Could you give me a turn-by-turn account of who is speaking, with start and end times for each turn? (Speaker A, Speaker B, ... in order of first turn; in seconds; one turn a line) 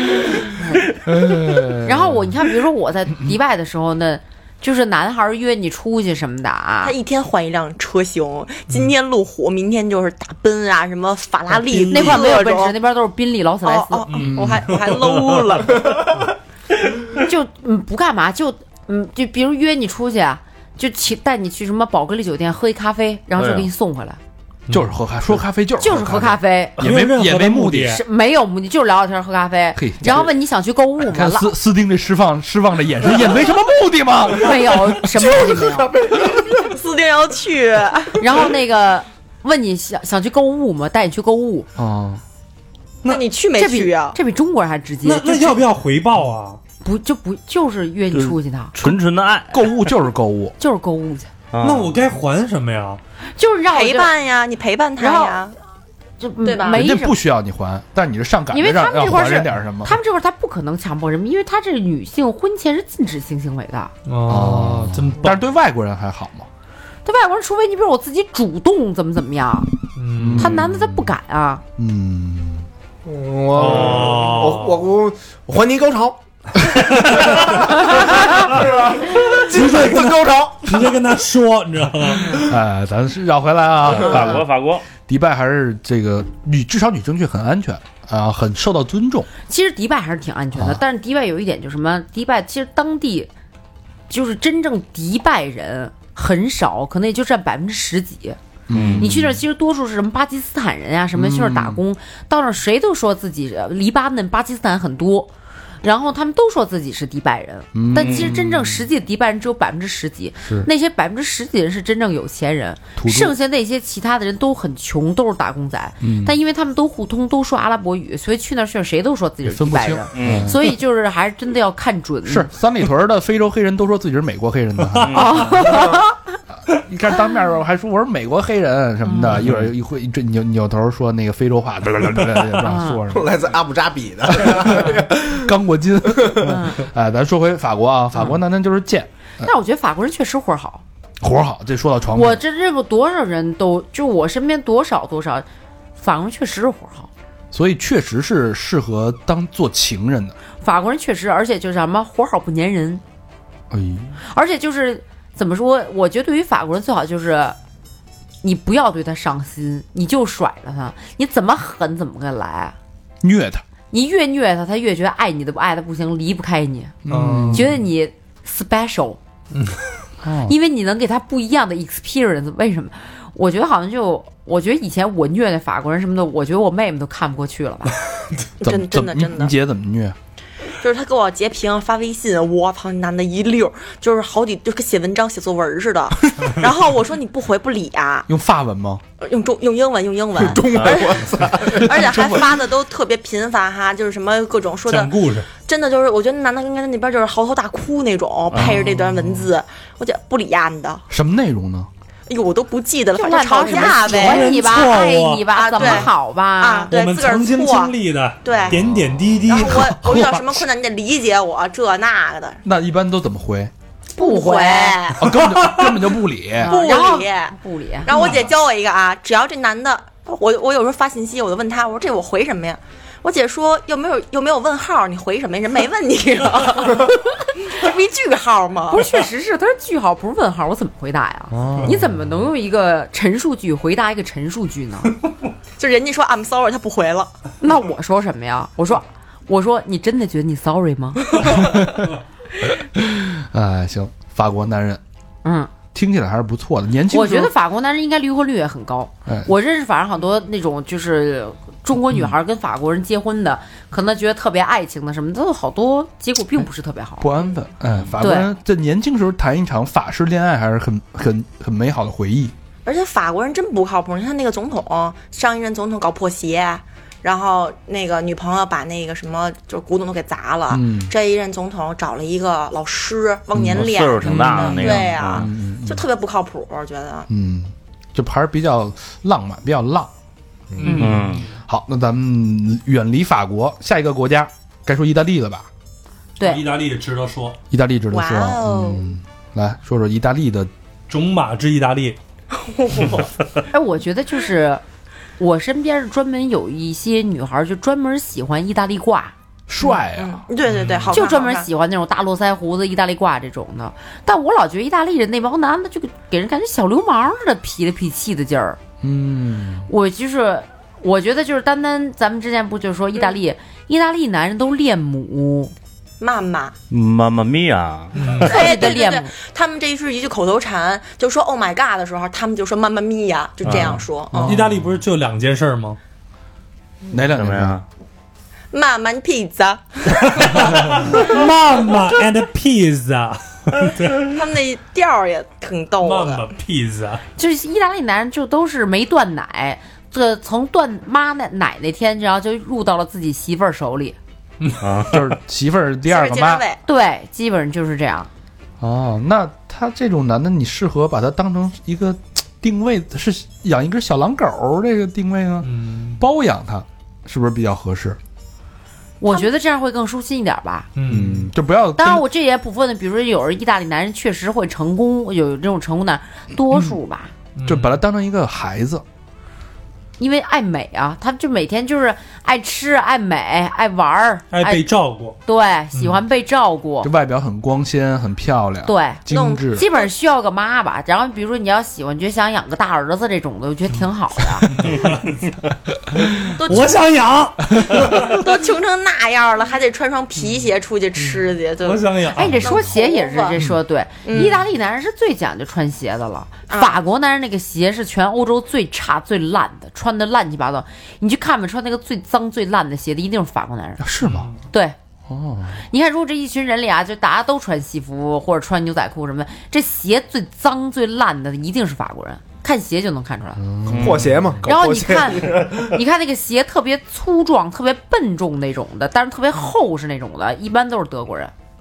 Speaker A: 0.6-0.8
Speaker B: 1.0-2.3
Speaker A: 1.8-6.9
Speaker C: 6.8-12.7
Speaker A: 11.9-14.0
Speaker C: 13.6-16.1
Speaker B: 14.2-14.7
Speaker D: 14.8-15.2
Speaker A: 17.1-24.2
Speaker E: 23.4-23.7
Speaker B: 24.7-28.0
Speaker A: 25.8-26.8
Speaker D: 26.8-28.0
Speaker A: 27.9-31.5
Speaker B: 29.8-30.3
Speaker B: 31.0-34.9
Speaker A: 34.3-35.9
Speaker F: 35.1-36.8
Speaker C: 36.4-38.2
Speaker A: 38.2-41.7
Speaker B: 41.8-42.2
Speaker C: 43.0-44.2
Speaker A: 43.6-45.6
Speaker D: 45.0-46.6
Speaker A: 46.8-48.7
Speaker E: 48.1-49.8
Speaker B: 49.5-50.5
Speaker A: 50.6-51.3
Speaker E: 51.5-51.9
Speaker D: 51.6-53.0
Speaker A: 53.4-54.1
Speaker C: 53.7-55.5
Speaker A: 55.0-55.4
Speaker A: 56.2-57.2
Speaker C: 56.4-56.8
Speaker B: 56.6-60.0
Speaker A: 58.5-63.9
Speaker D: 64.0-65.4
Speaker B: 64.3-66.5
Speaker A: 67.0-69.7
Speaker D: 70.0-70.5
Speaker B: 70.1-71.1
Speaker A: 70.3-71.6
Speaker B: 71.8-72.7
Speaker F: 73.0-76.2
Speaker D: 73.5-74.8
Speaker F: 77.2-81.0
Speaker D: 79.3-82.4
Speaker B: 82.3-84.5
Speaker E: 83.8-84.8
Speaker B: 85.1-89.3
Speaker A: 89.5-93.3
Speaker B: 90.5-90.8
Speaker A: 94.1-98.4
Speaker B: 98.7-99.4
Speaker E: 98.7-99.1
Speaker A: 99.0-105.3
Speaker B: 101.1-101.8
Speaker A: 105.8-122.5
Speaker B: 107.7-108.9
Speaker E: 108.0-108.3
Speaker B: 110.4-110.7
Speaker B: 113.0-113.3
Speaker B: 116.0-116.4
Speaker B: 119.4-120.6
Speaker E: 120.1-120.5
Speaker B: 122.2-125.2
Speaker E: 125.0-125.6
Speaker A: 125.1-126.2
Speaker B: 126.6-133.3
Speaker A: 129.1-129.4
Speaker A: 132.6-133.0
Speaker F: 133.1-135.4
Speaker B: 134.3-139.5
Speaker F: 136.2-136.4
Speaker A: 136.4-136.8
Speaker A: 139.4-140.8
Speaker B: 141.2-142.4
Speaker A: 142.1-145.4
Speaker A: 146.0-147.1
Speaker B: 147.5-150.3
Speaker A: 150.6-153.0
Speaker B: 153.7-154.1
Speaker A: 154.3-157.6
Speaker A: 158.4-162.7
Speaker B: 163.2-163.6
Speaker A: 163.9-166.9
Speaker B: 167.0-167.7
Speaker D: 167.1-167.7
Speaker A: 167.5-169.2
Speaker D: 169.5-169.8
Speaker B: 170.2-170.5
Speaker A: 170.5-177.9
Speaker C: 178.6-179.5
Speaker B: 178.6-180.2
Speaker C: 180.8-188.3
Speaker B: 188.3-189.0
Speaker C: 189.2-201.0
Speaker F: 190.4-191.9
Speaker E: 190.8-191.1
Speaker B: 191.9-192.5
Speaker D: 194.9-195.5
Speaker E: 198.5-198.8
Speaker B: 198.5-199.5
Speaker B: 201.1-201.9
Speaker C: 202.3-204.5
Speaker A: 203.1-206.9
Speaker D: 204.0-205.9
Speaker C: 205.5-208.8
Speaker D: 206.9-210.1
Speaker B: 208.8-210.4
Speaker C: 209.5-212.6
Speaker B: 212.6-213.7
Speaker C: 214.2-215.3
Speaker A: 214.2-215.0
Speaker B: 215.2-216.8
Speaker A: 216.6-218.1
Speaker C: 216.6-229.0
Speaker A: 228.9-235.1
Speaker B: 231.5-232.4
Speaker C: 235.8-237.3
Speaker A: 237.6-241.5
Speaker B: 241.4-242.1
Speaker B: 242.8-245.0
Speaker A: 245.4-245.7
Speaker B: 245.9-247.5
Speaker A: 247.1-257.3
Speaker B: 257.2-262.5
Speaker A: 258.2-258.5
Speaker C: 262.8-277.3
Speaker B: 270.7-271.1
Speaker B: 273.5-276.1
Speaker E: 273.7-275.5
Speaker B: 277.3-280.1
Speaker D: 280.8-281.5
Speaker E: 280.8-281.4
Speaker B: 281.1-285.7
Speaker D: 286.4-287.6
Speaker B: 287.7-290.7
Speaker C: 288.1-289.1
Speaker D: 291.1-292.2
Speaker C: 292.5-293.3
Speaker A: 293.7-294.8
Speaker A: 295.4-299.3
Speaker B: 299.7-300.4
Speaker C: 299.9-301.7
Speaker D: 300.7-301.1
Speaker A: 301.1-308.8
Speaker B: 309.0-309.9
Speaker A: 309.9-315.7
Speaker C: 316.2-316.7
Speaker E: 316.9-318.4
Speaker D: 318.1-318.6
Speaker C: 318.3-324.6
Speaker A: 318.4-319.3
Speaker E: 323.6-324.0
Speaker B: 324.3-324.8
Speaker D: 324.4-326.0
Speaker B: 327.1-327.8
Speaker E: 327.3-327.8
Speaker C: 328.7-330.6
Speaker D: 330.2-334.3
Speaker C: 334.1-336.5
Speaker D: 336.0-337.2
Speaker A: 337.4-344.1
Speaker E: 344.8-345.2
Speaker B: 345.1-346.6
Speaker C: 346.1-346.8
Speaker A: 346.9-348.3
Speaker B: 348.8-358.2
Speaker D: 355.6-356.2
Speaker A: 359.2-360.9
Speaker D: 360.9-361.5
Speaker B: 361.1-362.2
Speaker A: 362.0-367.3
Speaker D: 367.6-368.0
Speaker B: 367.6-369.0
Speaker A: 370.2-374.9
Speaker D: 374.5-375.4
Speaker A: 375.4-377.1
Speaker B: 377.0-379.9
Speaker A: 378.9-384.7
Speaker C: 379.3-380.1
Speaker D: 384.7-385.4
Speaker D: 386.4-388.4
Speaker C: 386.6-387.0
Speaker C: 388.0-393.6
Speaker D: 391.2-392.8
Speaker A: 392.3-404.0
Speaker C: 394.2-394.6
Speaker C: 396.7-397.0
Speaker B: 404.0-404.5
Speaker D: 404.2-404.5
Speaker A: 404.7-404.9
Speaker B: 405.3-405.8
Speaker A: 405.9-413.6
Speaker B: 413.6-414.4
Speaker E: 413.9-414.3
Speaker F: 413.9-415.9
Speaker A: 414.6-421.5